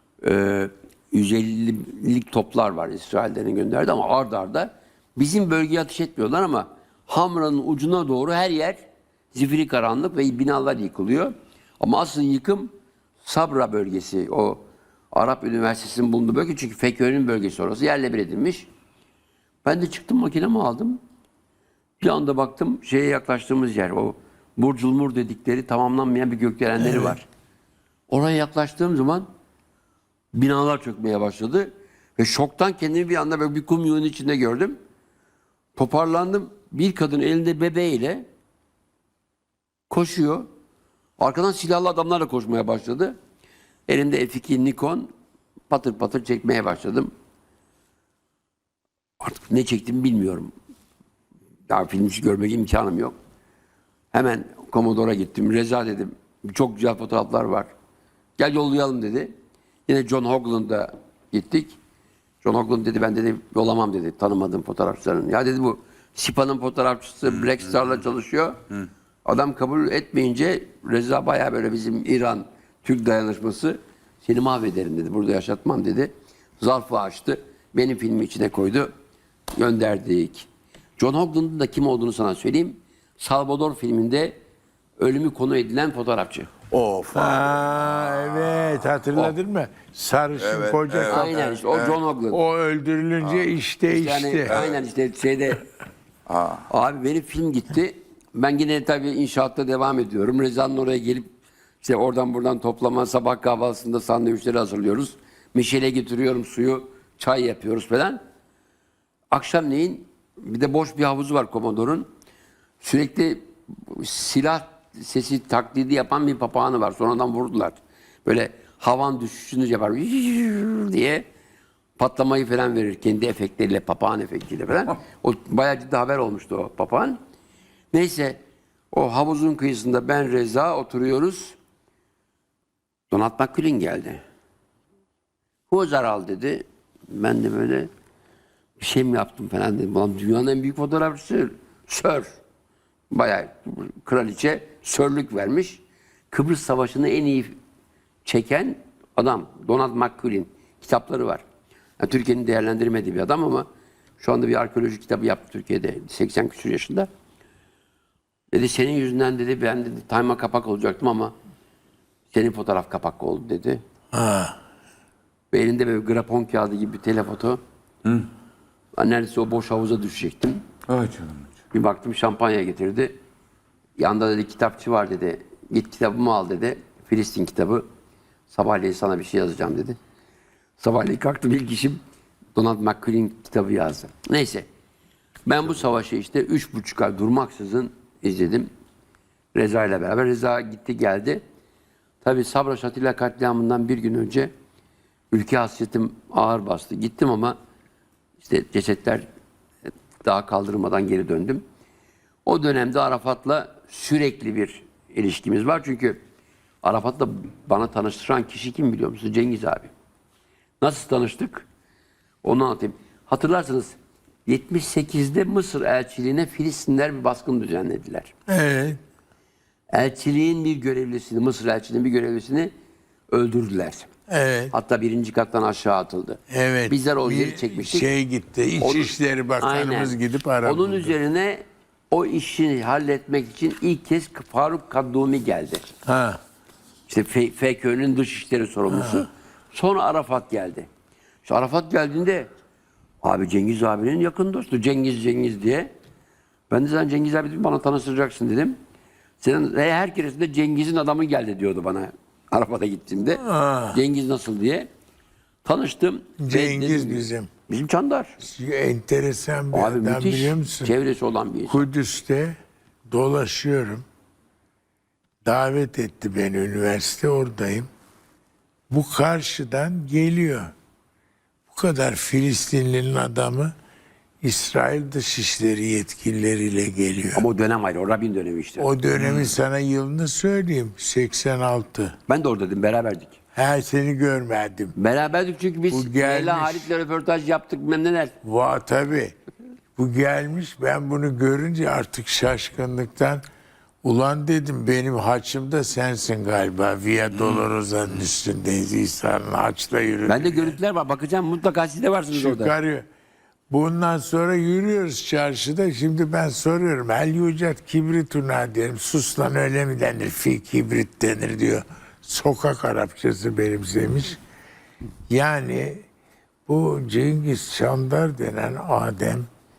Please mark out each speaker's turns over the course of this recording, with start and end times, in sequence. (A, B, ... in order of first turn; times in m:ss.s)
0:00.2-0:08.8 A
0:09.3-0:12.7 A
0:13.2-0:18.7 A
0:19.6-0:21.0 A
0:22.0-0:27.3 A
0:26.8-0:27.2 B
0:28.1-0:29.3 A
0:30.3-0:34.8 A
0:35.8-0:38.2 A
0:39.9-0:40.5 A
0:41.2-0:43.2 A
0:43.9-0:45.1 A
0:45.7-0:47.1 A
0:49.2-0:50.5 A
0:51.7-0:53.2 A
0:54.1-0:57.7 A
0:58.4-0:59.3 A
0:59.9-1:01.8 A
1:02.4-1:08.6 A
1:09.2-1:18.9 A
1:19.5-1:24.4 A
1:25.0-1:26.5 A
1:26.7-1:29.0 C
1:27.1-1:31.6 B
1:30.4-1:32.0 C
1:31.0-1:32.4 A
1:32.3-1:34.6 B
1:33.2-1:33.5 C
1:33.9-1:35.6 A
1:34.5-1:34.8 C
1:36.3-1:36.7 C
1:36.7-1:41.3 A
1:41.8-1:48.2 A
1:49.3-1:52.1 A
1:52.8-2:01.2 A
2:02.0-2:07.2 A
2:07.9-2:08.4 A
2:08.9-2:11.6 A
2:13.1-2:14.2 A
2:15.7-2:17.9 A
2:18.8-2:22.4 A
2:23.1-2:27.6 A
2:28.2-2:31.4 A
2:32.0-2:33.7 A
2:34.2-2:37.1 A
2:38.5-2:41.3 A
2:42.3-2:43.8 A
2:44.1-2:44.6 B
2:45.5-2:47.6 A
2:49.0-2:50.6 A
2:50.9-2:51.5 C
2:51.7-2:53.2 A
2:54.0-2:57.8 A
2:58.5-3:00.0 A
3:00.8-3:02.0 A
3:02.6-3:04.7 A
3:05.5-3:08.7 A
3:09.6-3:11.4 A
3:12.2-3:14.5 A
3:15.3-3:17.6 A
3:18.4-3:19.3 A
3:20.2-3:21.6 A
3:22.5-3:26.2 A
3:26.8-3:29.9 A
3:30.8-3:31.7 A
3:32.4-3:34.0 A
3:34.5-3:38.3 A
3:38.5-3:39.0 B
3:39.9-3:42.7 A
3:43.3-3:44.1 A
3:44.3-3:44.7 B
3:44.7-3:48.1 A
3:46.5-3:51.1 B
3:48.8-3:55.8 A
3:56.1-3:56.4 B
3:57.1-4:00.9 A
3:58.9-3:59.3 B
4:01.4-4:02.5 A
4:03.2-4:05.9 A
4:06.7-4:08.8 A
4:09.4-4:14.9 A
4:13.4-4:14.0 B
4:15.6-4:18.4 A
4:16.4-4:17.5 B
4:18.4-4:20.9 B
4:19.7-4:21.9 A
4:21.7-4:22.6 B
4:23.1-4:24.0 B
4:25.4-4:27.9 B
4:28.9-4:30.7 B
4:31.7-4:33.7 B
4:34.4-4:37.4 B
4:37.4-4:38.9 A
4:38.8-4:42.2 B
4:39.2-4:39.5 C
4:42.3-4:43.4 A
4:43.5-4:45.0 B
4:45.0-4:48.3 A
4:45.9-4:46.9 B
4:48.4-4:49.4 B
4:50.0-4:53.4 B
4:54.0-5:00.8 B
4:57.3-4:57.6 C
5:00.3-5:02.8 A
5:02.3-5:03.0 B
5:03.7-5:14.4 B
5:15.3-5:16.0 B
5:16.7-5:19.5 B